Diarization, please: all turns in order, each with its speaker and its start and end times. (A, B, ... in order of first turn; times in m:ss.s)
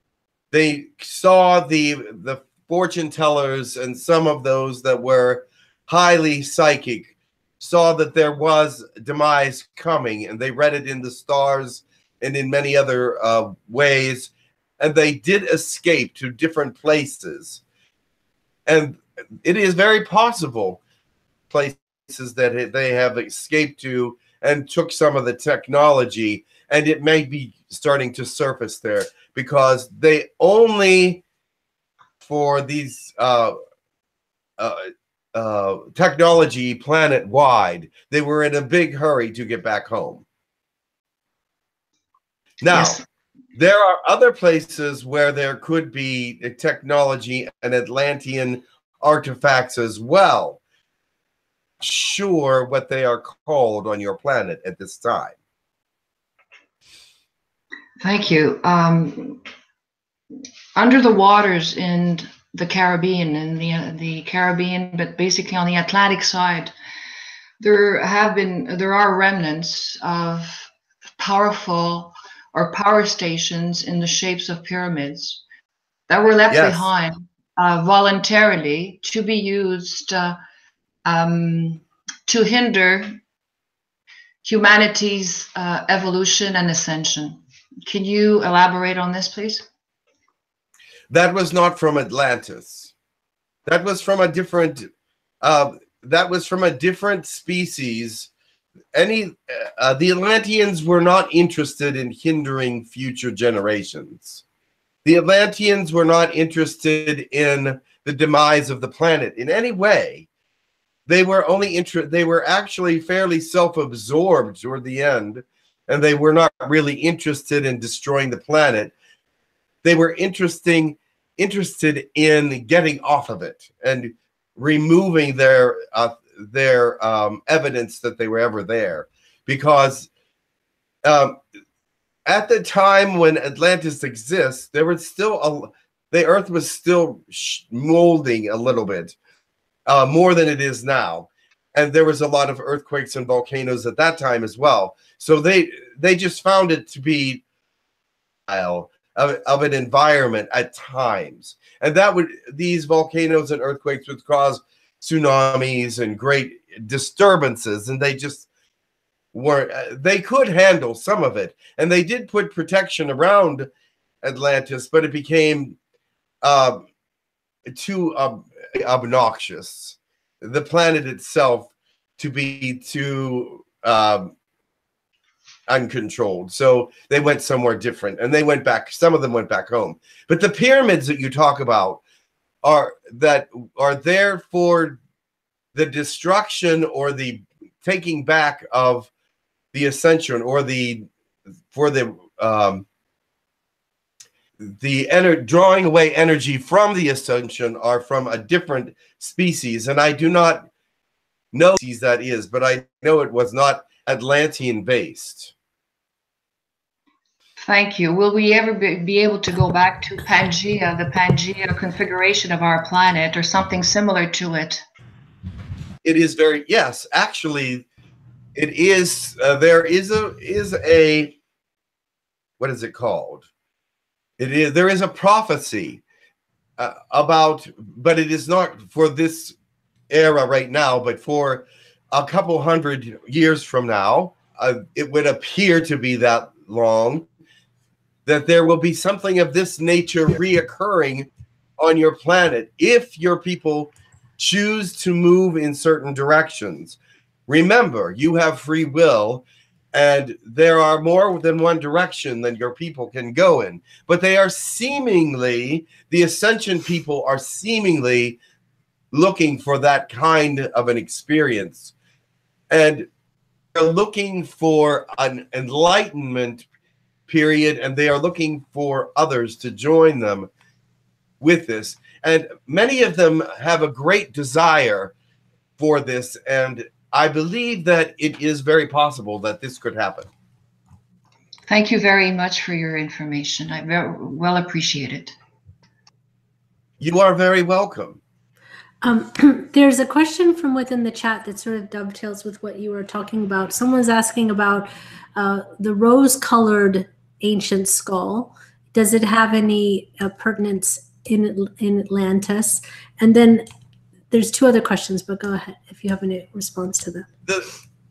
0:00.5-0:17.6 A
0:18.6-0:20.8 A
0:21.5-0:31.2 A
0:32.2-0:33.5 A
0:34.6-0:40.2 A
0:42.6-0:43.0 A
0:42.7-0:43.0 B
0:43.5-0:50.6 A
0:51.8-0:55.3 A
0:58.0-0:59.4 B
1:00.8-1:06.7 B
1:07.6-1:15.4 B
1:16.1-1:20.4 B
1:16.5-1:16.9 A
1:21.0-1:23.2 B
1:24.4-1:29.6 B
1:31.1-1:32.9 A
1:33.6-1:34.9 A
1:35.4-1:38.3 A
1:38.9-1:44.4 A
1:45.0-1:50.2 A
1:51.1-1:58.9 A
1:59.8-2:10.1 A
2:11.0-2:11.4 A
2:12.2-2:19.2 A
2:19.8-2:27.4 A
2:28.5-2:38.5 A
2:39.3-2:43.7 A
2:44.2-2:45.8 A
2:46.4-2:46.8 A
2:47.6-2:54.3 A
2:55.7-3:02.0 A
3:02.6-3:05.0 A
3:05.7-3:09.1 A
3:09.7-3:11.1 A
3:11.7-3:12.8 A
3:14.6-3:20.7 A
3:21.5-3:25.5 A
3:27.6-3:34.8 B
3:36.0-3:37.8 A
3:38.5-3:41.3 A
3:42.6-3:43.4 A
3:44.4-3:46.0 A
3:46.8-3:49.6 A
3:50.1-3:57.2 A
3:58.2-4:18.4 A
4:19.1-4:21.9 A
4:22.7-4:23.1 A
4:23.7-4:26.6 A
4:27.3-4:30.5 A
4:31.4-4:35.1 A
4:35.8-4:40.3 A
4:41.7-4:45.3 B
4:47.0-4:48.2 A
4:49.0-5:03.6 C
5:04.3-5:07.3 C
5:07.4-5:07.7 A